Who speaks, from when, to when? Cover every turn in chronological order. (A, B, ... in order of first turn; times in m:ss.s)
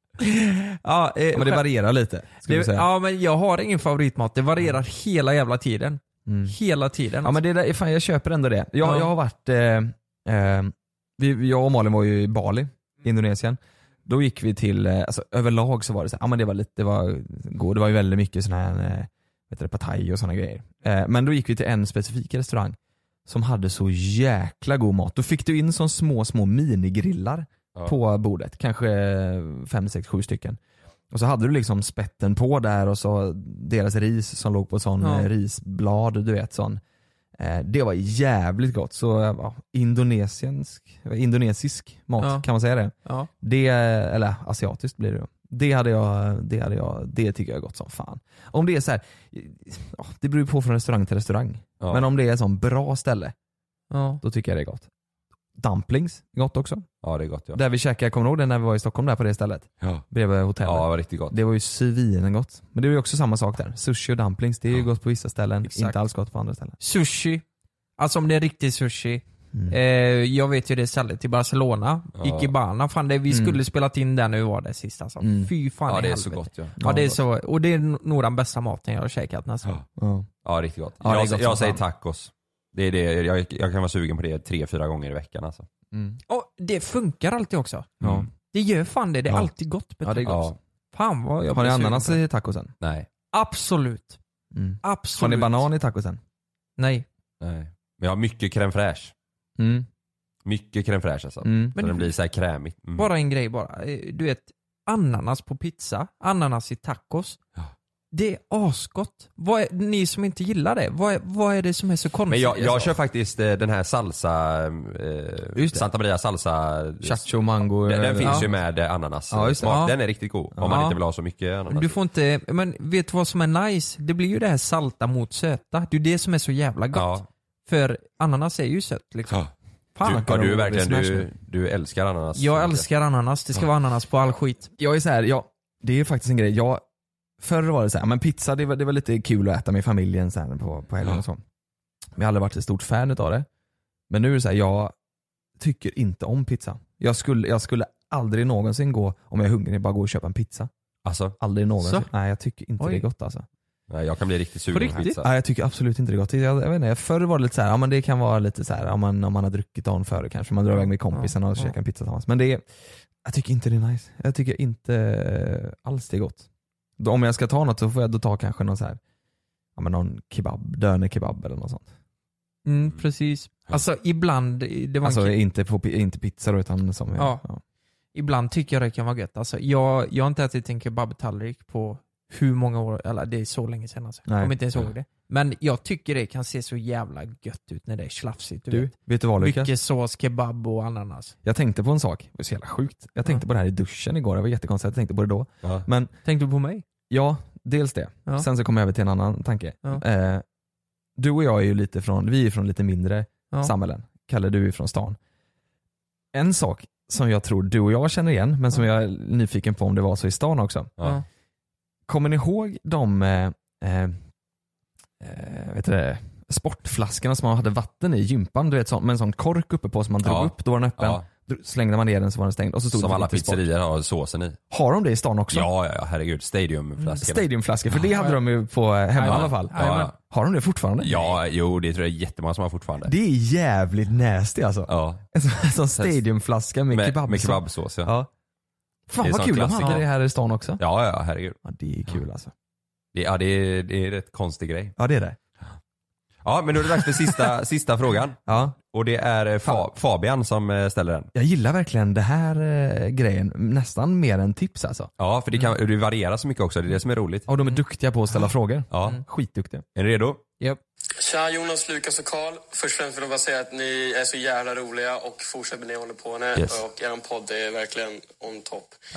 0:00.2-0:01.6 A
0:01.3-0:02.9 B
0:02.4-0:07.4 A
0:06.3-0:06.6 B
0:07.2-0:30.6 B
0:08.8-0:09.1 A
0:31.1-0:36.8 B
0:35.0-0:35.3 A
0:37.4-0:53.3 B
0:42.2-0:42.4 A
0:53.9-0:54.2 A
0:54.2-0:54.9 B
0:55.6-0:56.9 B
0:57.0-0:57.6 C
0:57.5-1:06.8 B
1:00.6-1:01.3 C
1:05.6-1:06.0 A
1:06.8-1:07.4 A
1:08.0-1:19.7 A
1:09.5-1:09.8 B
1:12.2-1:12.5 C
1:13.3-1:13.6 B
1:15.2-1:15.5 B
1:15.9-1:16.8 C
1:16.8-1:17.2 B
1:20.0-1:20.3 B
1:20.4-1:25.6 C
1:21.0-1:21.8 B
1:25.9-1:26.2 B
1:26.3-1:32.2 A
1:28.0-1:28.3 C
1:30.0-1:30.4 B
1:30.2-1:30.6 C
1:31.5-1:32.7 B
1:32.8-1:33.1 C
1:33.3-1:34.2 A
1:34.5-1:36.2 B
1:34.8-1:35.7 A
1:36.8-1:37.0 A
1:37.4-1:39.1 C
1:39.6-1:39.9 B
1:40.4-1:43.1 C
1:41.4-1:41.8 B
1:41.8-1:42.1 A
1:43.0-1:47.4 A
1:48.1-1:52.9 A
1:52.3-2:02.0 C
1:57.0-1:58.6 B
1:59.3-1:59.8 B
1:59.6-1:59.9 A
2:00.6-2:01.0 A
2:01.7-2:09.4 A
2:06.9-2:07.3 C
2:10.0-2:10.2 A
2:10.0-2:11.3 B
2:10.0-2:12.8 C
2:12.4-2:14.7 A
2:14.8-2:16.8 B
2:17.4-2:21.4 B
2:22.1-2:23.4 B
2:24.1-2:24.9 B
2:25.6-2:30.7 B
2:31.0-2:31.4 C
2:31.4-2:33.4 B
2:32.8-2:33.0 A
2:33.9-2:35.3 C
2:34.7-2:35.2 A
2:35.2-2:42.6 B
2:40.7-2:41.7 A
2:43.2-2:46.5 B
2:47.0-2:49.0 B
2:49.8-2:51.9 B
2:52.6-2:55.3 A
2:55.0-2:57.6 B
2:57.2-2:57.4 A
2:58.1-3:11.3 A
3:04.3-3:04.6 B
3:08.7-3:09.7 B
3:11.4-3:16.1 B
3:16.2-3:16.8 A
3:17.1-3:20.4 B
3:21.2-3:25.2 B
3:26.3-3:30.9 B
3:32.1-3:34.2 B
3:35.2-3:43.6 B
3:40.2-3:41.2 C
3:42.9-3:44.6 C
3:44.7-3:45.7 B
3:45.5-3:47.4 C
3:47.0-3:47.2 A
3:47.2-3:51.2 B
3:48.1-3:48.4 A
3:49.1-3:50.1 A
3:49.2-3:50.1 C
3:51.0-3:53.1 C
3:53.0-3:58.3 B
3:54.9-3:55.2 C
3:56.9-3:58.1 C
3:59.1-4:00.8 B
3:59.2-4:00.0 C
4:00.8-4:01.6 C
4:01.6-4:02.5 B
4:03.1-4:04.9 C
4:05.0-4:05.4 B
4:06.4-4:08.4 C
4:06.9-4:07.4 B
4:08.4-4:08.8 B
4:08.9-4:11.3 C
4:11.3-4:15.1 B
4:15.2-4:17.5 C
4:17.5-4:19.8 B
4:18.9-4:19.2 C
4:20.0-4:20.4 C
4:21.2-4:29.0 D
4:26.6-4:26.8 C